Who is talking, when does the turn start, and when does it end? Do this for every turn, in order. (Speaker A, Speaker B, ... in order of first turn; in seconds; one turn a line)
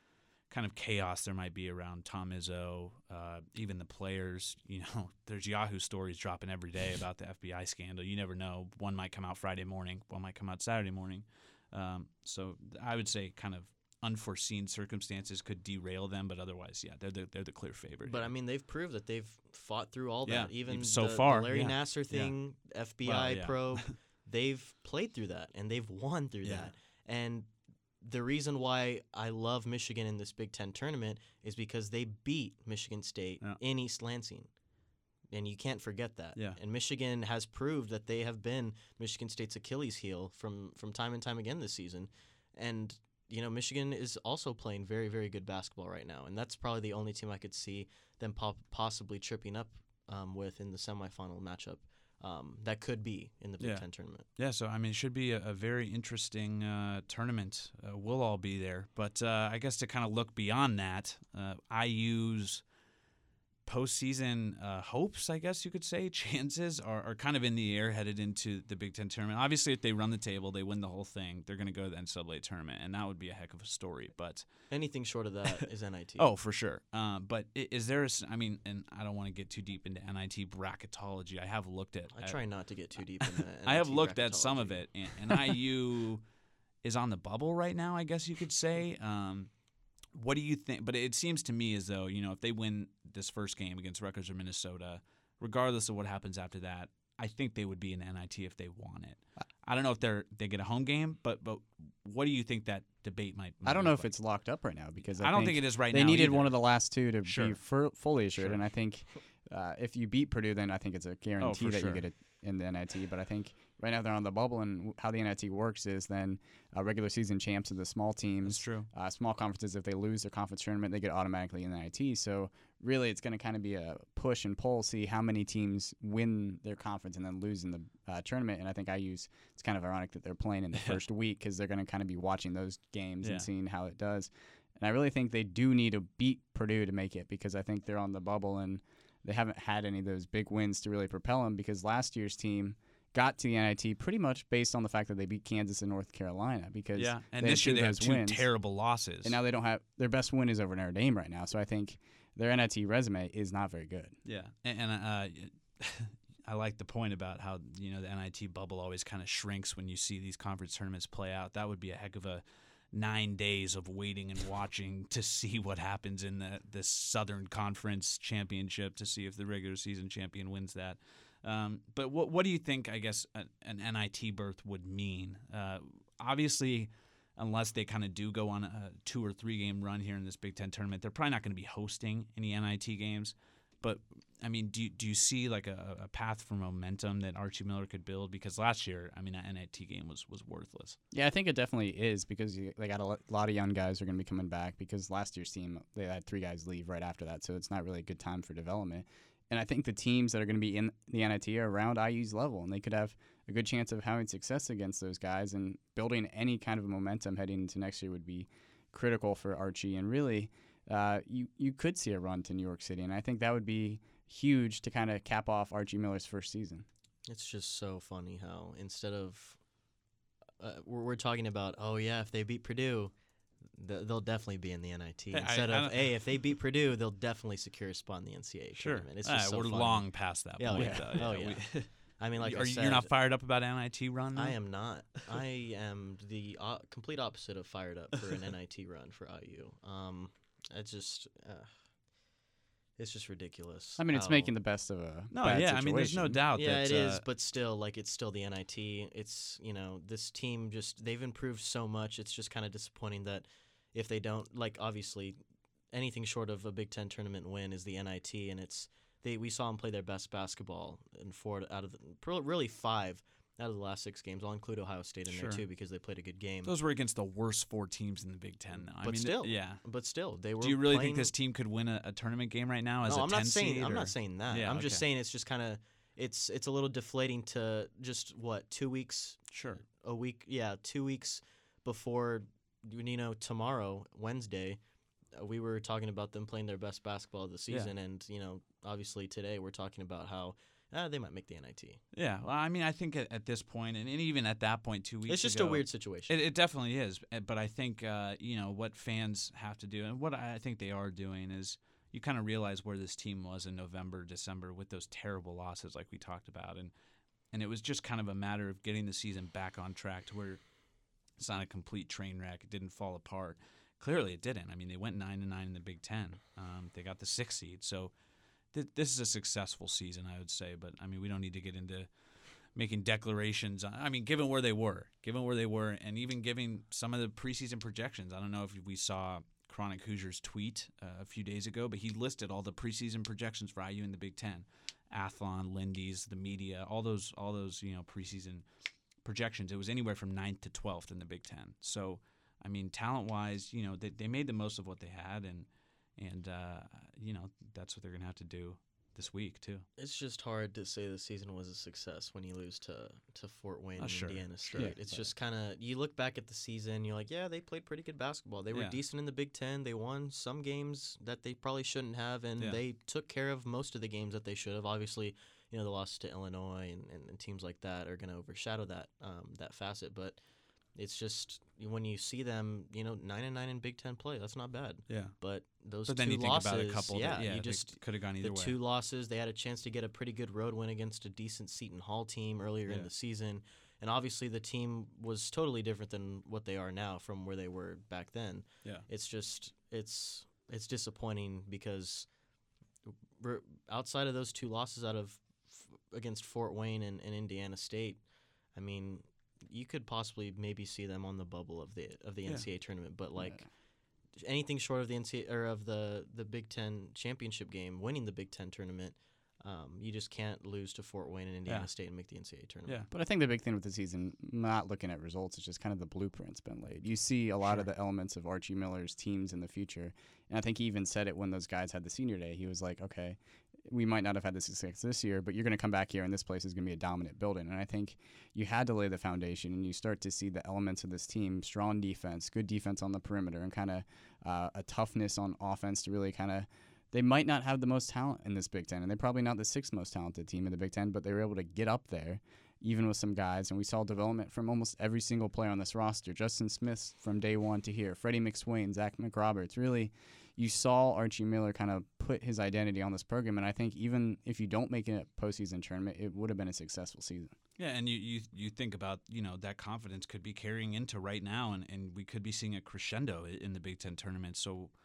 Speaker A: 0.5-18.3
Speaker B: 18.0-27.5
Speaker A: 20.2-22.3
Speaker A: 23.0-23.9
Speaker A: 26.4-26.7
Speaker B: 28.0-34.5
Speaker B: 35.3-54.2
Speaker A: 53.6-53.8
Speaker A: 54.4-62.6
Speaker A: 63.6-74.5
Speaker B: 74.7-76.3
Speaker A: 76.2-82.4
Speaker B: 82.1-84.8
Speaker A: 83.2-86.2
Speaker A: 86.8-89.5
Speaker A: 90.1-104.1
Speaker C: 103.6-148.5
Speaker A: 105.2-106.5
Speaker A: 107.2-107.6
Speaker A: 108.4-108.6
Speaker A: 111.4-112.0
Speaker A: 118.4-118.9
Speaker A: 133.2-133.5
Speaker A: 146.9-149.4
Speaker C: 149.2-154.2
Speaker A: 154.2-191.0
Speaker C: 191.1-216.8
Speaker B: 217.3-219.6
Speaker B: 220.6-223.1
Speaker B: 223.7-233.1
Speaker A: 225.3-226.2
Speaker A: 228.8-234.6
Speaker C: 230.7-231.3
Speaker B: 234.3-241.7
Speaker B: 243.0-244.5
Speaker C: 244.0-246.4
Speaker A: 245.3-247.2
Speaker B: 246.5-255.4
Speaker B: 255.9-266.7
Speaker A: 265.3-265.6
Speaker A: 266.6-269.8
Speaker B: 268.8-271.3
Speaker A: 270.6-275.0
Speaker B: 273.1-284.8
Speaker A: 279.5-279.8
Speaker B: 285.4-292.0
Speaker A: 292.1-306.9
Speaker B: 295.3-296.4
Speaker A: 307.5-310.6
Speaker A: 311.4-318.1
Speaker A: 318.7-322.1
Speaker A: 322.7-338.6
Speaker A: 339.2-349.9
Speaker B: 350.0-370.4
Speaker A: 354.0-354.9
Speaker B: 370.9-392.3
Speaker A: 375.1-375.3
Speaker A: 376.1-378.8
Speaker B: 393.4-398.2
Speaker B: 398.7-403.7
Speaker B: 404.4-413.1
Speaker C: 413.1-457.5
Speaker A: 457.8-464.9